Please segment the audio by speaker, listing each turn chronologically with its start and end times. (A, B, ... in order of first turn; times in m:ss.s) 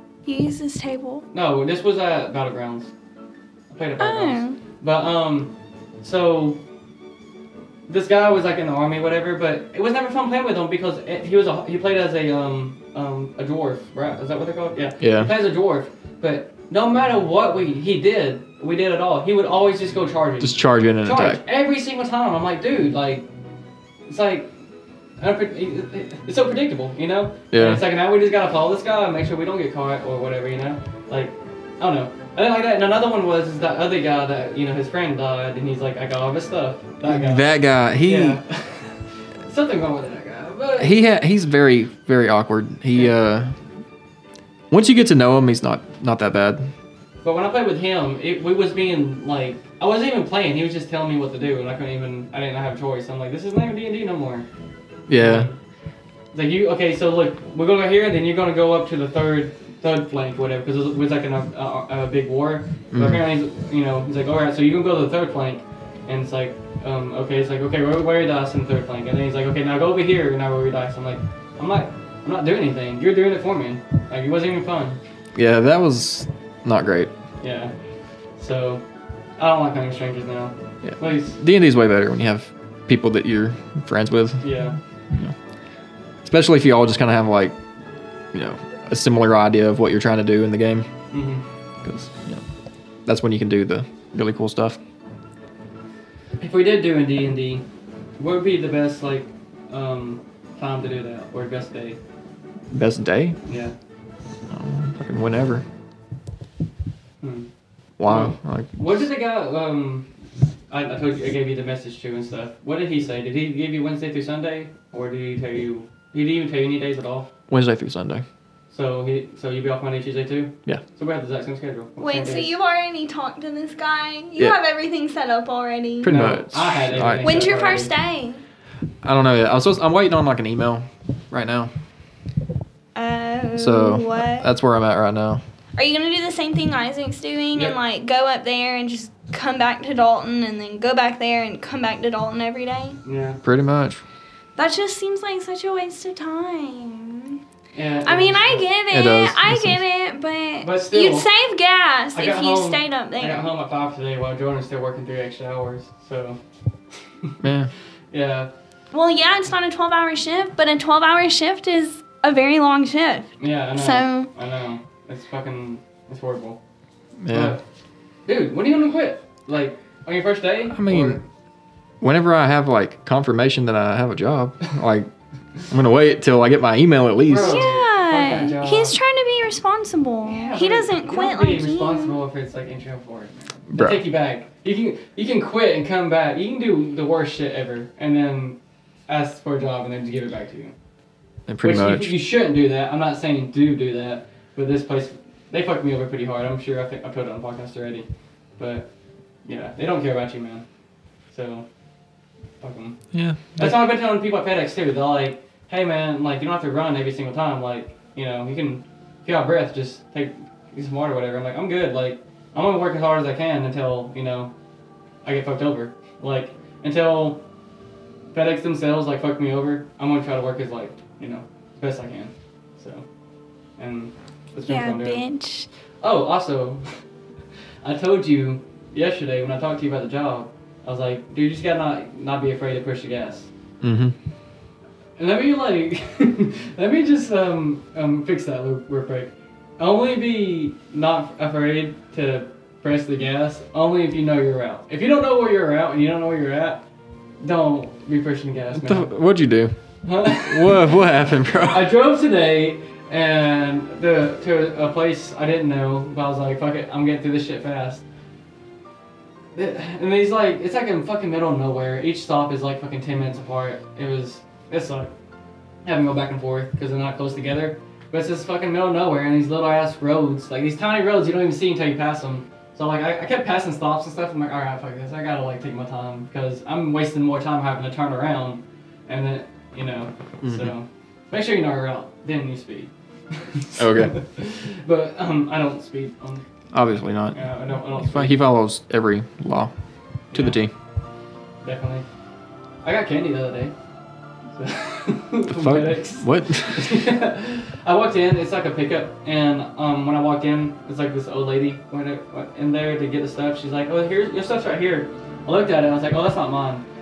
0:00.3-0:01.3 A
0:01.3-0:02.9 B
0:03.7-0:06.6 B
0:04.0-0:04.6 A
0:07.9-0:23.3 B
0:15.0-0:15.3 C
0:20.4-0:21.4 C
0:24.1-0:24.5 B
0:25.2-0:37.5 B
0:27.5-0:27.8 C
0:37.0-0:38.4 C
0:38.0-0:41.1 B
0:40.8-0:43.6 C
0:44.7-0:46.7 C
0:47.2-0:54.4 B
0:55.1-0:55.5 C
0:55.1-0:55.6 B
0:56.3-1:15.0 B
1:02.9-1:03.2 C
1:15.4-1:17.1 C
1:17.4-1:17.7 B
1:18.4-1:18.8 B
1:19.4-1:21.4 B
1:20.8-1:25.3 C
1:24.4-1:24.8 B
1:26.2-1:27.6 C
1:28.3-1:30.9 C
1:31.1-1:31.4 B
1:31.8-1:32.4 C
1:33.1-1:34.8 C
1:36.4-1:37.6 B
1:38.2-1:42.0 B
1:42.7-1:43.4 C
1:43.5-1:43.8 B
1:44.5-1:45.6 C
1:47.2-1:47.5 B
1:48.0-1:49.0 C
1:48.0-1:50.1 B
1:50.7-1:57.3 B
1:57.5-1:58.2 C
1:58.7-2:02.5 B
2:02.0-2:06.3 A
2:06.0-2:07.5 C
2:06.0-2:07.9 B
2:07.2-2:08.4 A
2:09.0-2:11.7 C
2:13.0-2:14.5 A
2:13.6-2:15.4 C
2:15.8-2:23.0 A
2:23.0-2:23.4 B
2:23.4-2:24.0 C
2:24.6-2:27.4 A
2:27.7-2:28.7 B
2:28.0-2:33.5 A
2:28.9-2:29.8 C
2:30.6-2:31.3 B
2:32.1-2:36.4 B
2:37.4-2:37.7 C
2:38.1-2:38.5 B
2:38.9-2:44.3 A
2:43.4-2:46.6 B
2:47.2-2:47.6 C
2:47.3-2:47.6 B
2:48.3-2:51.2 B
2:50.7-2:51.2 C
2:52.0-2:55.1 C
2:55.7-2:57.7 C
2:57.3-2:59.0 B
2:57.4-3:02.2 A
3:00.2-3:10.7 B
3:03.7-3:04.1 C
3:11.5-3:12.2 C
3:11.6-3:18.9 B
3:19.4-3:20.6 B
3:21.3-3:21.7 B
3:22.6-3:23.0 B
3:23.1-3:23.8 C
3:23.5-3:34.5 B
3:35.2-3:37.4 B
3:38.3-3:43.0 B
3:43.8-3:45.2 B
3:44.7-3:45.7 A
3:46.0-3:46.8 B
3:47.8-3:53.5 B
3:53.8-3:54.2 C
3:55.2-4:06.8 B
4:07.4-4:09.1 B
4:08.8-4:11.9 C
4:10.0-4:10.9 B
4:11.7-4:18.0 B
4:19.6-4:25.1 B
4:25.8-4:46.4 B
4:40.4-4:40.7 C
4:43.8-4:44.2 C
4:46.7-4:49.7 C
4:47.3-4:48.4 B
4:50.3-4:50.6 B
4:50.3-4:50.7 C
4:51.6-4:52.0 B
4:52.8-4:53.7 B
4:54.6-5:06.8 B
4:55.5-4:57.0 C